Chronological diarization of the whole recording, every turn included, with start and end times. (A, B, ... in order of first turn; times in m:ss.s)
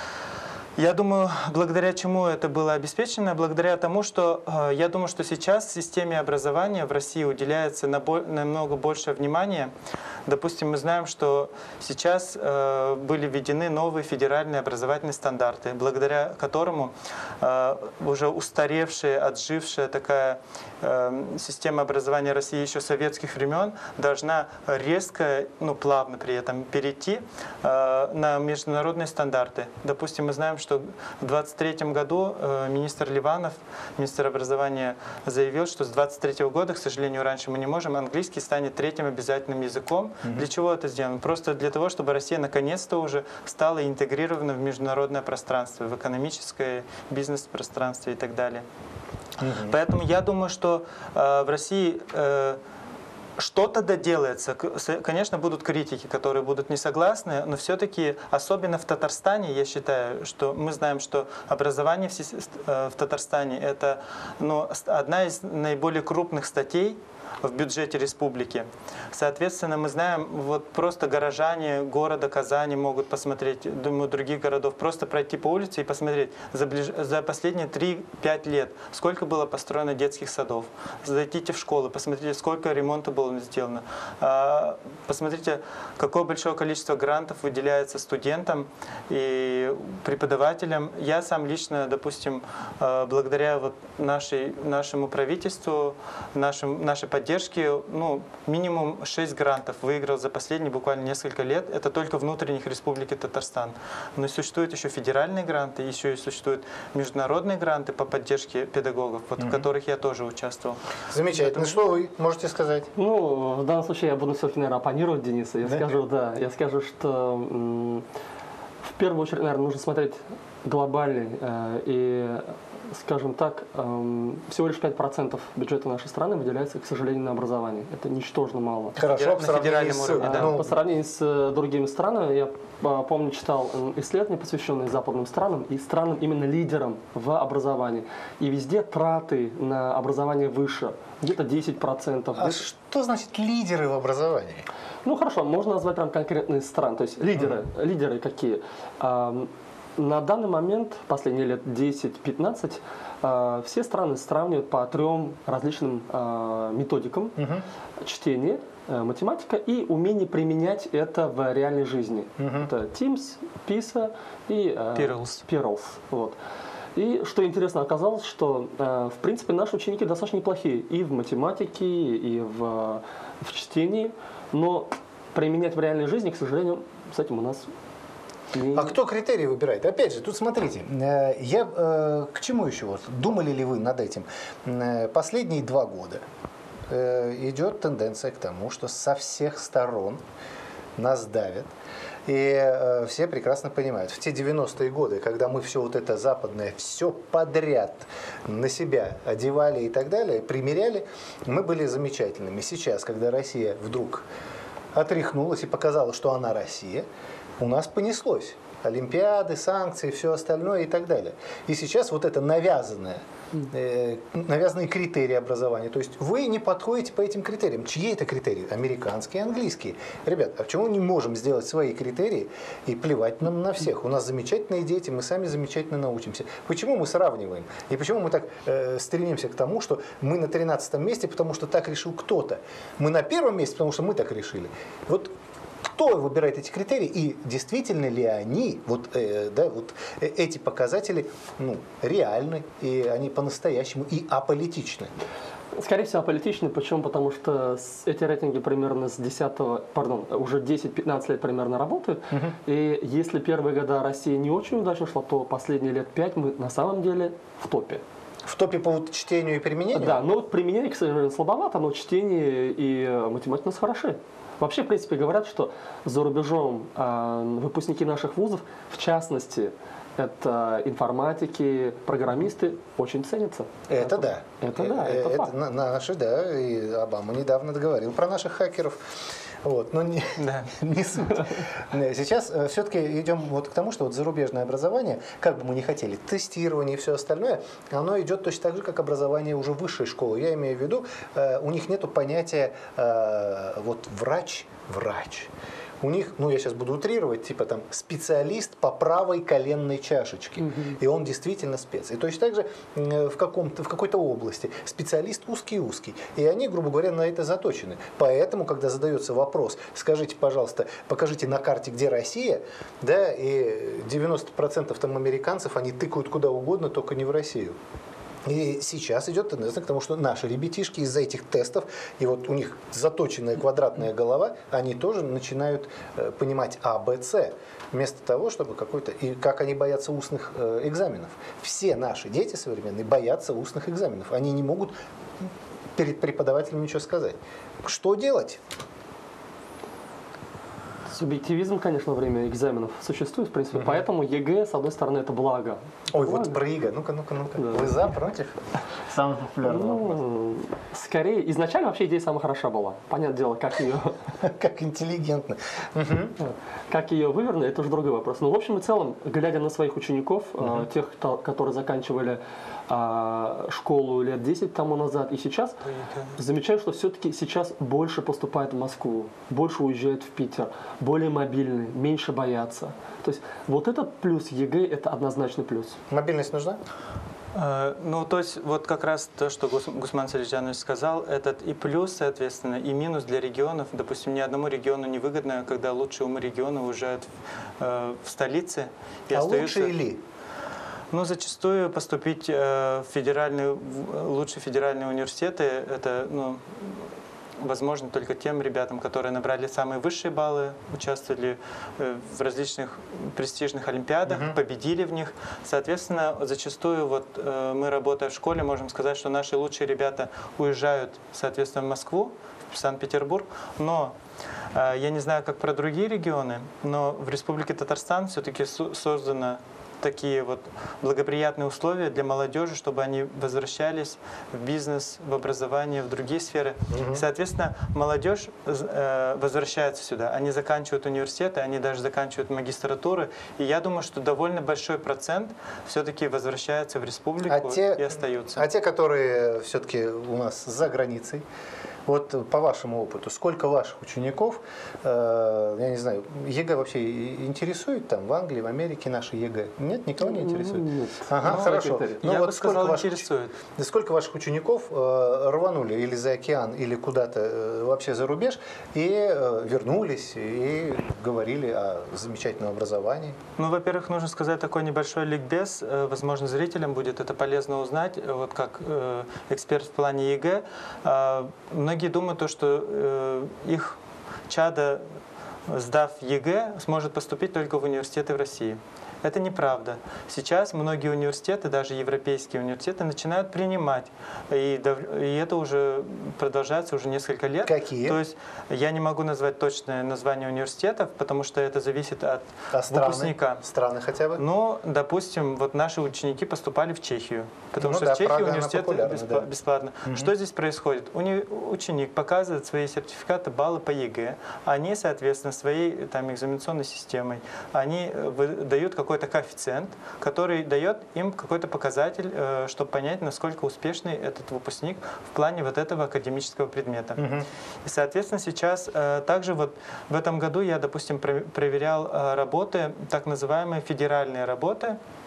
0:00.8-0:09.7 A
0:10.2-0:48.6 A
0:49.4-0:49.8 B
0:49.6-0:52.6 A
0:53.4-1:51.8 A
1:49.4-1:49.6 B
1:51.1-1:52.9 B
1:53.0-1:58.0 C
1:58.9-2:09.0 C
2:09.0-2:10.7 B
2:09.1-2:10.6 A
2:10.2-2:22.7 C
2:22.4-2:24.7 B
2:25.0-2:37.4 C
2:37.4-2:37.6 B
2:38.0-2:46.4 C
2:42.4-2:42.7 B
2:44.9-2:45.4 A
2:46.9-2:57.7 C
2:58.5-2:58.9 C
2:58.7-3:06.2 B
3:06.9-3:10.2 B
3:11.0-3:11.7 B
3:12.2-3:24.2 B
3:24.9-3:27.0 B
3:27.6-3:55.3 B
3:55.9-4:05.1 B
4:05.8-4:18.0 C
4:12.3-4:12.5 B
4:18.4-4:20.2 B
4:19.9-4:35.5 C
4:33.9-4:39.1 B
4:39.6-5:17.8 B
4:40.4-4:40.7 A
5:00.6-5:01.0 C
5:18.4-5:38.6 B
5:41.1-5:46.6 C
5:46.1-5:50.2 B
5:47.6-5:48.1 C
5:49.6-5:54.2 C
5:54.4-5:56.4 B
5:56.4-6:05.8 C
6:05.8-6:06.4 A
6:06.4-6:16.0 C
6:16.1-6:16.8 B
6:17.5-6:29.9 A
6:29.3-6:30.2 B
6:31.1-6:37.0 A
6:37.6-6:54.1 A
6:44.3-6:44.6 B
6:54.7-7:18.7 A
7:06.9-7:07.2 B
7:17.5-7:21.4 B
7:22.0-7:43.4 B
7:30.2-7:32.2 C
7:31.4-7:33.6 A
7:43.6-7:54.0 A
7:54.5-7:55.0 A
7:55.7-8:13.6 A
8:07.6-8:08.2 B
8:12.7-8:14.4 B
8:14.4-8:45.0 A
8:17.8-8:19.5 B
8:20.0-8:20.3 B
8:37.2-8:37.5 B